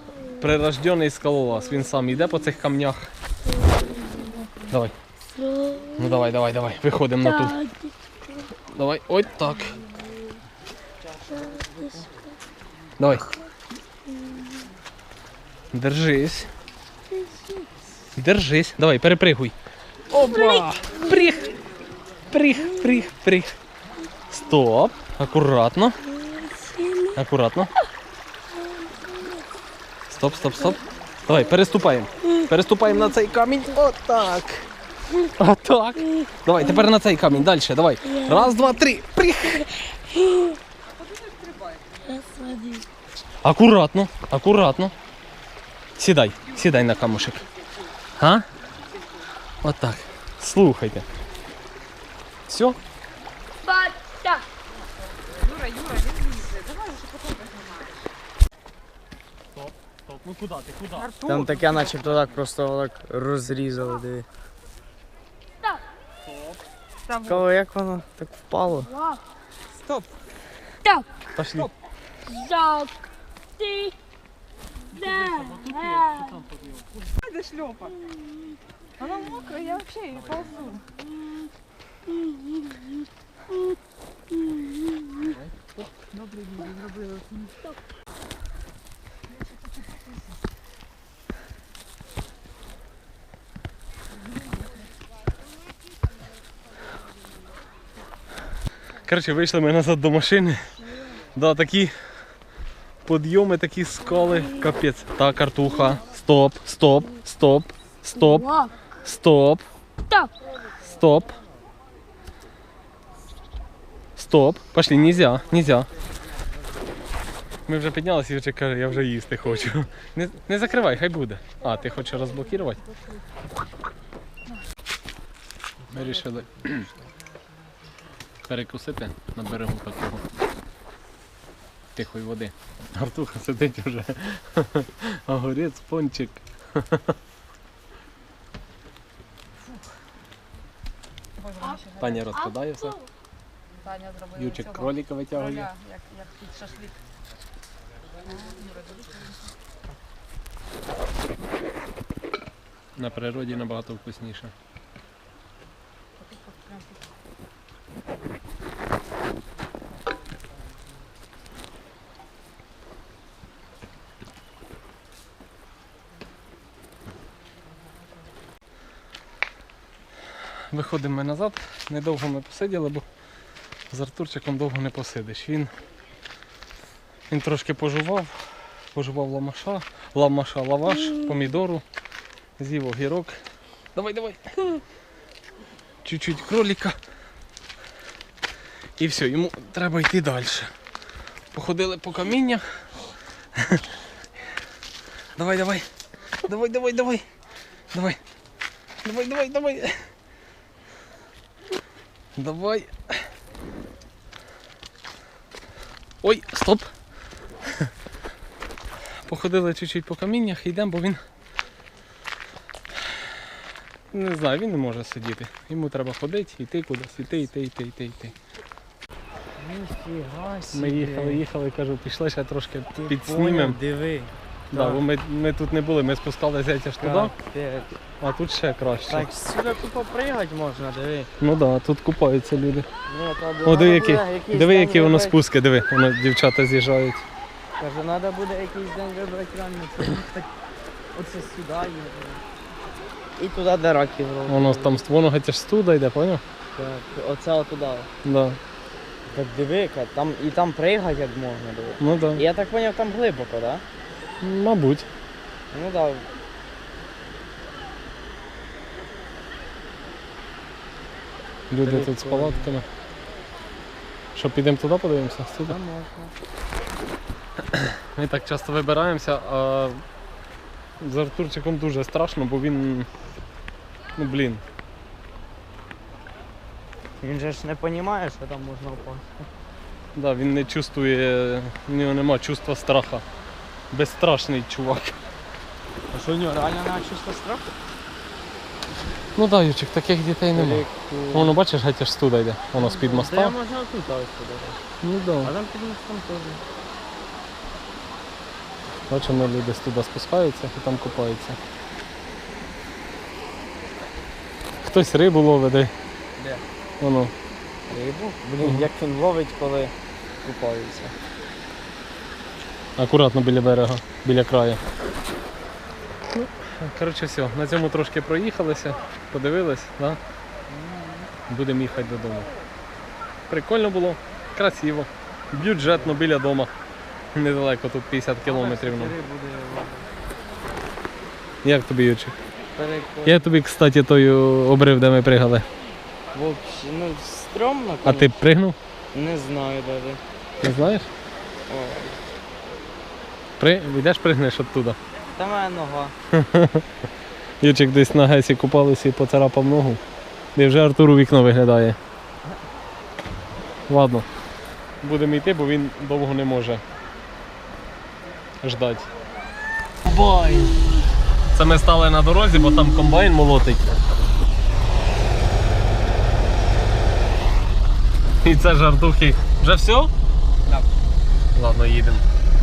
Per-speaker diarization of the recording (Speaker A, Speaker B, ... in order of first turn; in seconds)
Speaker A: 0.2-3.1, 4.7-4.9, 5.9-7.7, 8.7-9.8, 13.0-13.3, 15.7-16.5, 18.1-19.5, 20.1-21.5, 22.3-23.5, 24.3-26.0, 27.1-27.7, 30.1-34.6, 35.2-39.9, 43.4-44.9, 46.0-47.4, 48.2-48.5, 49.6-51.0, 52.5-52.8, 59.5-61.1, 61.8-62.4, 66.2-66.6, 71.3-71.7, 74.9-76.9, 80.1-80.7, 85.1-85.9, 99.0-100.8, 101.3-101.9, 103.0-109.6, 110.8-111.4, 114.2-115.9, 117.7-122.8, 125.9-126.9, 128.4-130.2, 131.9-137.2, 142.0-143.0, 144.3-145.7, 152.9-154.5, 170.7-173.0, 173.9-175.7, 177.3-181.8, 182.6-183.4, 183.9-184.8, 186.0-186.9, 189.0-190.7, 191.5-192.6, 193.5-193.8, 195.3-195.8, 196.4-197.2, 197.9-198.2, 199.0-200.0, 202.4-203.1, 206.2-206.9, 209.2-211.2, 214.1-218.3, 220.7-223.8, 224.7-227.3, 228.2-229.3, 231.4-232.9, 233.6-237.2, 244.5-246.4, 248.2-248.6, 252.0-252.4, 254.4-255.1, 261.7-262.9, 264.3-265.8, 267.7-270.0, 271.0-273.1, 274.1-274.6, 280.1-283.2, 283.9-285.1, 289.4-293.5, 295.0-295.5, 299.1-301.6, 304.8-305.9, 307.0-307.3, 308.6-308.9, 313.0-314.8, 316.3-320.2, 321.5-322.5, 323.5-326.7, 327.3-329.1, 331.6-332.3, 333.2-335.7, 338.0-338.8, 340.6-341.1, 343.6-345.0, 346.3-346.8, 347.6-350.0, 350.6-352.0, 353.9-354.2, 355.0-356.8, 358.6-359.1, 360.0-360.8, 361.5-363.9, 368.4-370.1, 371.5-372.2
Speaker B: 5.3-5.9, 11.3-12.1, 26.6-26.9, 42.2-42.9, 53.6-54.4, 70.8-71.2, 72.3-73.1, 73.6-73.9
Speaker C: 40.9-42.2, 55.3-58.1, 60.9-62.0, 67.0-67.5, 69.7-70.1, 77.1-78.0, 79.0-80.8, 86.1-87.7, 141.4-142.3, 143.8-147.0, 148.2-149.5, 156.2-157.0
Speaker D: 61.2-64.3, 67.2-68.9, 219.6-221.4, 222.9-225.0, 227.0-228.0, 229.1-231.3, 233.1-235.4, 237.8-240.5, 241.1-242.4, 243.4-245.0, 246.8-248.1, 249.3-253.8, 255.7-256.3, 261.8-262.7, 265.6-266.3, 277.2-279.4, 286.1-287.7, 290.5-291.6, 292.7-294.8, 295.4-296.6, 306.4-306.6, 307.9-311.1, 320.7-321.3, 325.8-326.2, 328.4-330.1, 332.8-333.5, 336.3-338.3, 339.1-340.2, 341.7-342.2, 345.3-346.1